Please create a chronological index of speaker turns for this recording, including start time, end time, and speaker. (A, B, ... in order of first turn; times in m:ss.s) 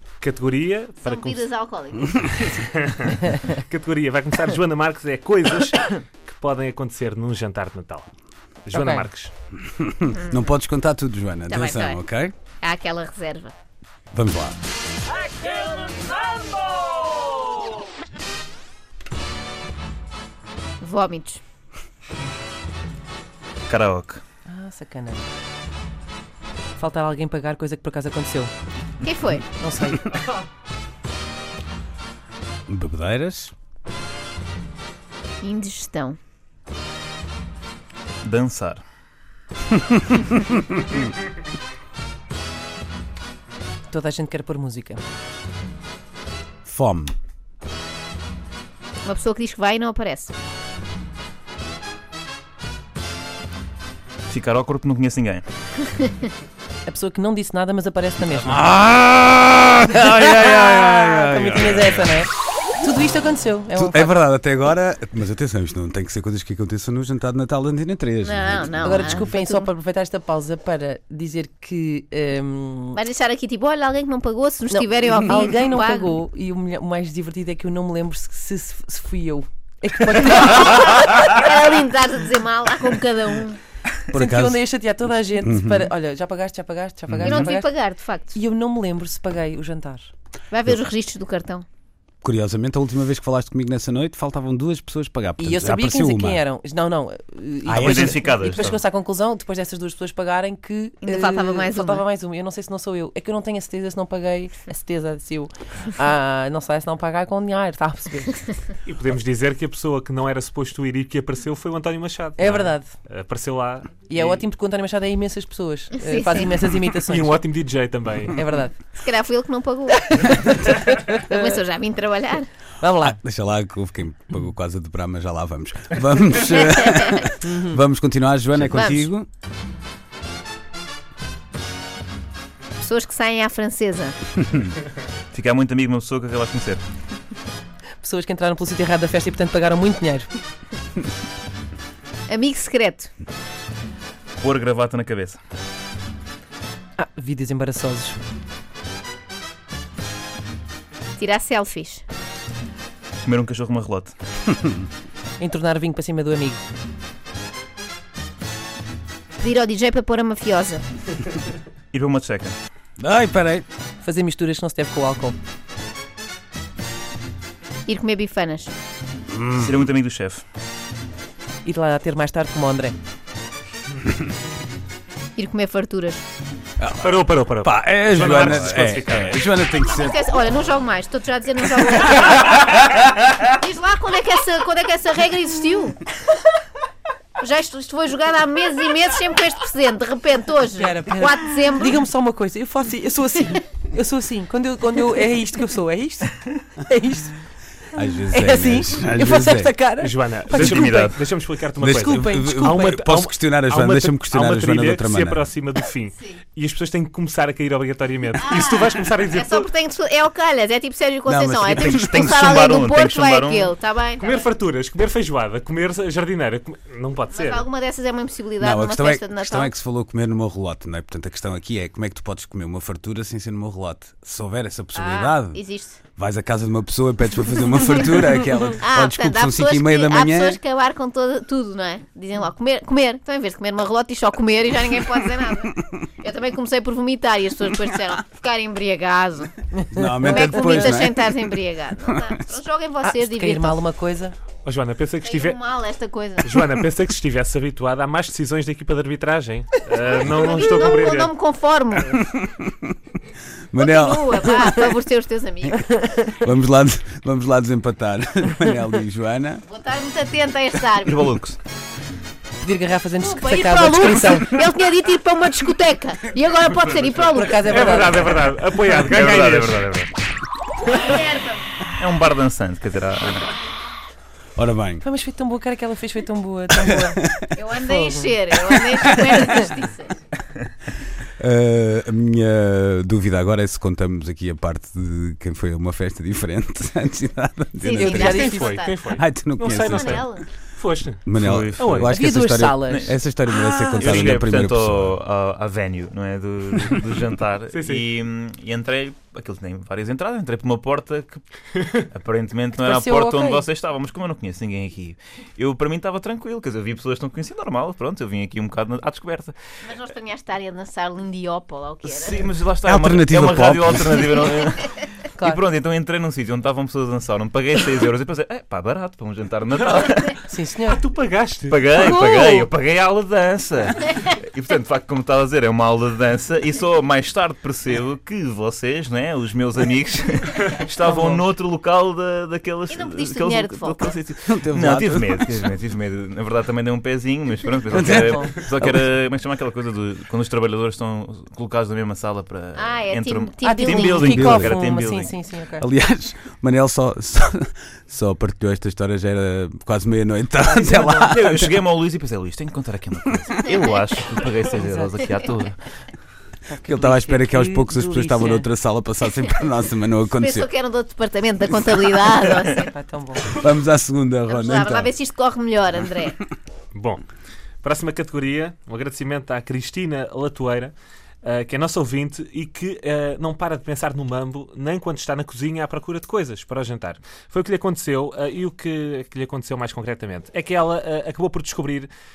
0:00.2-0:01.4 A
0:01.0-0:02.4 B
0:02.3-0:08.0 A
0:08.7-0:09.3 A
0:08.7-0:09.1 C
0:09.6-0:12.3 D
0:10.1-0:10.5 B
0:11.5-0:12.0 B
0:12.6-0:13.5 B
0:14.1-0:14.6 D
0:20.8-0:21.4 B
0:23.7-0:24.2 E
0:24.4-0:25.3 C
0:26.8-0:28.5 C
0:29.0-0:29.5 B
0:29.6-0:30.2 C
0:32.7-0:33.5 D
0:35.4-0:36.2 B
0:38.2-0:38.8 E
0:39.8-0:40.2 D
0:43.9-0:45.0 C
0:46.6-0:47.1 D
0:49.0-0:50.3 B
0:54.3-0:55.5 E
0:56.8-0:58.7 C
0:58.4-1:02.1 D
1:00.0-1:04.1 C
1:03.7-1:09.3 D
1:08.2-1:09.7 B
1:08.8-1:13.0 C
1:12.9-1:16.2 B
1:14.7-1:20.6 C
1:20.2-1:23.6 B
1:24.1-1:24.6 D
1:24.1-1:27.8 C
1:25.4-1:25.9 D
1:27.2-1:27.5 E
1:27.2-1:28.4 B
1:28.3-1:30.1 C
1:30.5-1:31.6 B
1:32.2-1:36.4 D
1:35.4-1:48.4 C
1:37.6-1:38.2 D
1:37.8-1:38.8 E
1:41.0-1:42.0 B
1:48.8-1:54.4 A
1:52.4-1:52.9 C
1:54.1-1:57.4 C
1:55.9-1:56.6 B
1:57.0-1:58.4 A
1:58.3-1:58.8 C
1:59.0-2:02.5 B
2:00.1-2:01.6 C
2:02.8-2:03.2 C
2:03.0-2:09.3 D
2:06.6-2:07.3 B
2:07.4-2:07.8 C
2:08.7-2:09.1 B
2:12.8-2:14.2 B
2:15.3-2:16.8 E
2:18.0-2:20.4 C
2:22.3-2:23.1 B
2:24.4-2:25.4 E
2:27.0-2:28.2 C
2:31.2-2:32.0 B
2:33.2-2:34.1 E
2:35.4-2:36.6 C
2:39.4-2:40.8 B
2:41.9-2:42.6 E
2:43.0-2:43.6 D
2:44.0-2:45.4 C
2:47.9-2:48.7 B
2:49.3-2:49.9 D
2:49.6-2:50.4 E
2:51.6-2:53.0 C
2:55.4-2:56.2 B
2:56.8-3:00.2 D
2:57.0-2:59.4 A
2:58.2-2:59.3 E
2:59.7-3:02.6 B
3:03.4-3:06.0 B
3:07.4-3:12.0 B
3:10.8-3:17.4 C
3:17.9-3:19.7 D
3:18.3-3:21.1 C
3:20.0-3:29.7 A
3:20.5-3:21.2 E
3:21.8-3:25.4 D
3:21.8-3:22.9 C
3:28.4-3:34.5 B
3:31.2-3:32.7 D
3:31.8-3:33.8 E
3:34.2-3:37.7 A
3:37.3-3:39.7 B
3:38.6-3:50.6 D
3:44.9-3:46.0 B
3:47.8-3:48.2 B
3:48.8-3:59.6 B
3:59.8-4:00.9 C
3:59.9-4:01.4 D
4:00.2-4:03.8 B
4:02.0-4:02.4 D
4:03.0-4:04.4 C
4:04.6-4:05.6 A
4:05.2-4:06.5 B
4:06.4-4:11.3 A
4:10.0-4:12.2 B
4:12.3-4:12.9 D
4:13.7-4:14.7 D
4:13.8-4:16.3 B
4:16.3-4:19.6 D
4:19.7-4:21.3 B
4:21.0-4:21.6 E
4:22.6-4:24.5 C
4:23.2-4:28.1 B
4:27.3-4:28.4 C
4:27.6-4:29.9 A
4:28.8-4:30.1 E
4:30.8-4:31.8 B
4:32.0-4:33.5 E
4:34.6-4:35.0 D
4:35.0-4:37.3 C
4:36.8-4:37.5 D
4:37.5-4:40.2 B
4:37.8-4:38.3 C
4:38.6-4:39.6 D
4:41.4-4:48.6 D
4:47.8-4:49.2 B
4:47.9-4:48.7 C
4:48.4-4:52.1 A
4:49.1-4:50.3 D
4:49.8-4:50.4 B
4:51.2-4:55.2 D
4:51.4-4:52.1 E
4:52.1-4:54.3 C
4:52.9-4:53.2 E
4:54.0-5:01.4 E
4:57.7-4:58.0 A
5:02.1-5:09.6 E
5:02.7-5:03.6 C
5:09.8-5:12.5 B
5:12.0-5:20.4 E
5:12.8-5:14.3 D
5:15.3-5:15.6 C
5:20.4-5:21.0 C
5:20.8-5:21.8 A
5:21.7-5:45.3 E
5:22.1-5:22.6 B
5:31.0-5:31.4 C
5:32.9-5:34.2 B
5:34.5-5:35.7 D
5:37.9-5:39.0 D
5:38.0-5:38.6 C
5:42.7-5:44.3 B
5:43.6-5:45.9 C
5:44.1-5:44.8 D
5:45.8-5:51.7 D
5:50.6-5:51.4 C
5:51.3-5:55.8 E
5:53.6-5:54.4 B
5:54.7-5:55.5 C
5:55.2-5:55.5 B
5:56.6-5:58.7 C
5:56.8-6:00.7 D
6:00.3-6:02.9 B
6:02.8-6:03.6 C
6:03.5-6:05.1 D
6:04.5-6:06.4 B
6:06.9-6:07.2 A
6:07.8-6:22.1 A